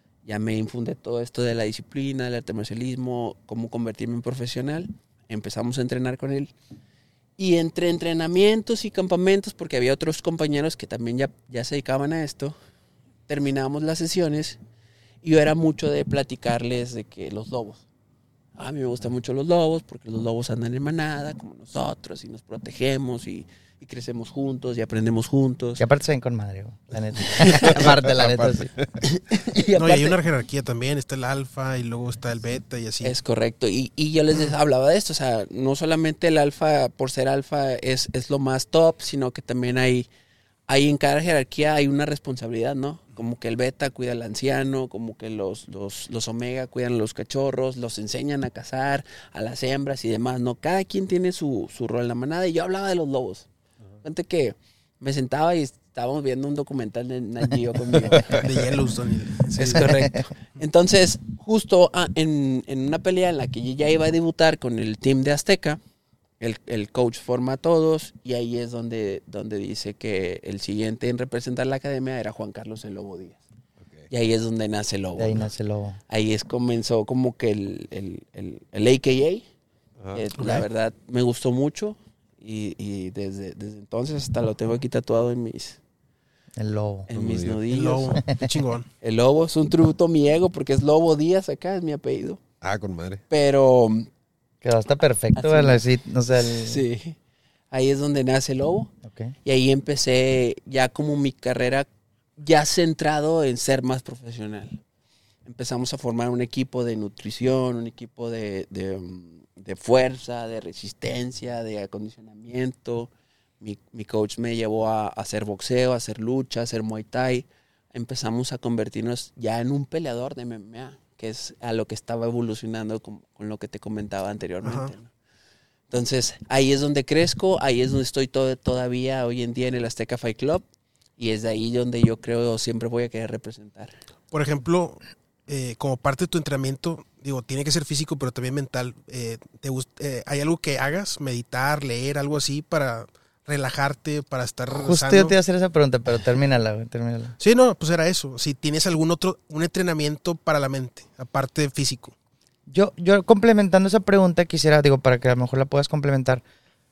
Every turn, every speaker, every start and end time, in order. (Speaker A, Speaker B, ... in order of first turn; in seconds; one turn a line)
Speaker A: 0.2-6.5
Speaker A: 7.4-12.6
Speaker A: 13.3-14.6
Speaker A: 15.2-17.8
Speaker A: 18.6-25.8
Speaker B: 25.8-28.7
Speaker C: 27.2-29.0
Speaker A: 27.3-27.9
Speaker A: 29.0-30.2
Speaker D: 29.8-33.1
Speaker A: 33.0-40.1
Speaker A: 40.7-53.5
Speaker A: 54.0-58.5
Speaker D: 58.3-60.0
Speaker A: 59.6-65.8
Speaker B: 59.8-60.2
Speaker A: 66.4-73.4
Speaker A: 74.1-75.5
Speaker B: 75.2-76.0
Speaker A: 76.1-79.5
Speaker A: 80.1-85.8
Speaker D: 80.4-80.7
Speaker B: 86.6-87.1
Speaker A: 87.1-88.2
Speaker C: 87.1-87.6
Speaker D: 87.7-88.9
Speaker A: 89.0-92.4
Speaker C: 92.6-93.2
Speaker A: 93.3-94.1
Speaker B: 94.6-96.8
Speaker A: 95.3-95.8
Speaker A: 96.4-97.2
Speaker A: 97.7-98.9
Speaker B: 99.0-99.3
Speaker A: 99.4-104.8
Speaker A: 105.5-125.1
Speaker D: 124.6-124.9
Speaker A: 125.9-130.6
Speaker A: 131.2-133.9
Speaker D: 134.3-145.3
Speaker B: 144.8-147.3
Speaker D: 147.4-152.1
Speaker B: 152.7-156.4